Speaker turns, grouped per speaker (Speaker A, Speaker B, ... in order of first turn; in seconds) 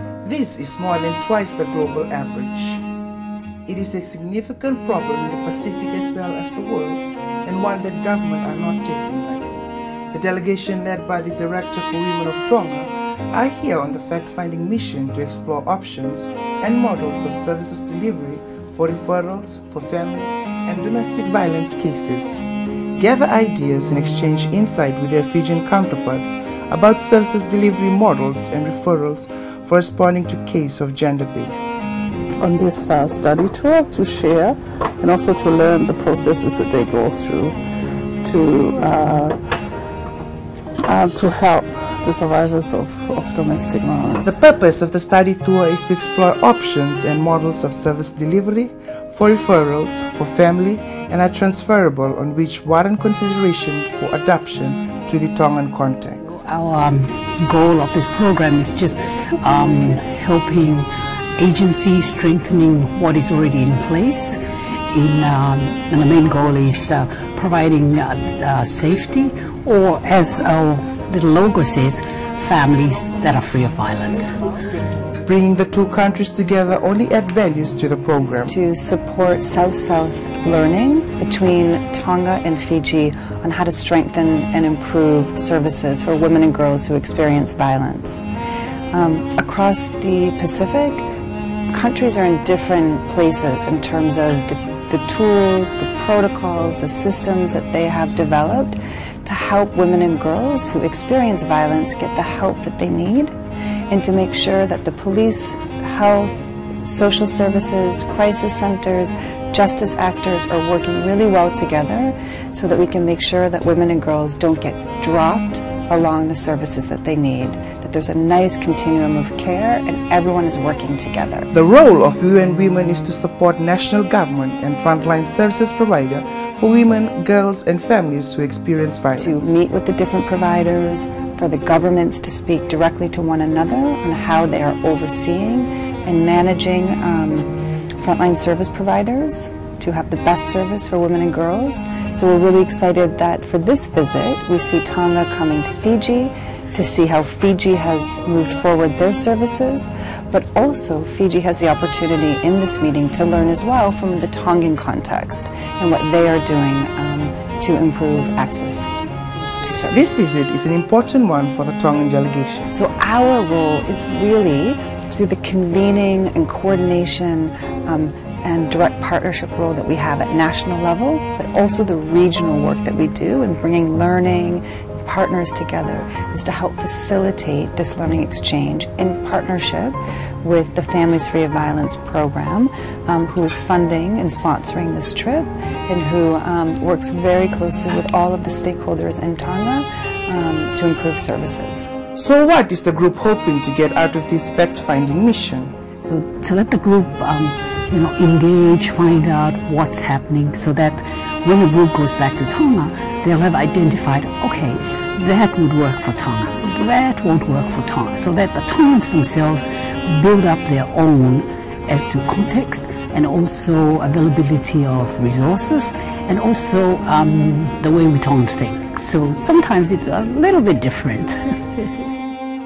Speaker A: 0.2-2.8, 3.6-22.4, 23.0-31.8, 44.2-56.4, 75.2-78.5, 121.5-129.5, 159.9-162.7, 192.2-195.7
Speaker B: 32.4-37.6, 38.2-39.4, 40.9-44.4
Speaker C: 56.4-64.4, 64.9-74.3, 196.0-221.8
Speaker D: 78.3-88.2, 88.9-91.0, 91.7-103.3, 103.9-106.3, 106.8-121.5, 129.2-158.9, 159.6-160.1, 162.7-191.9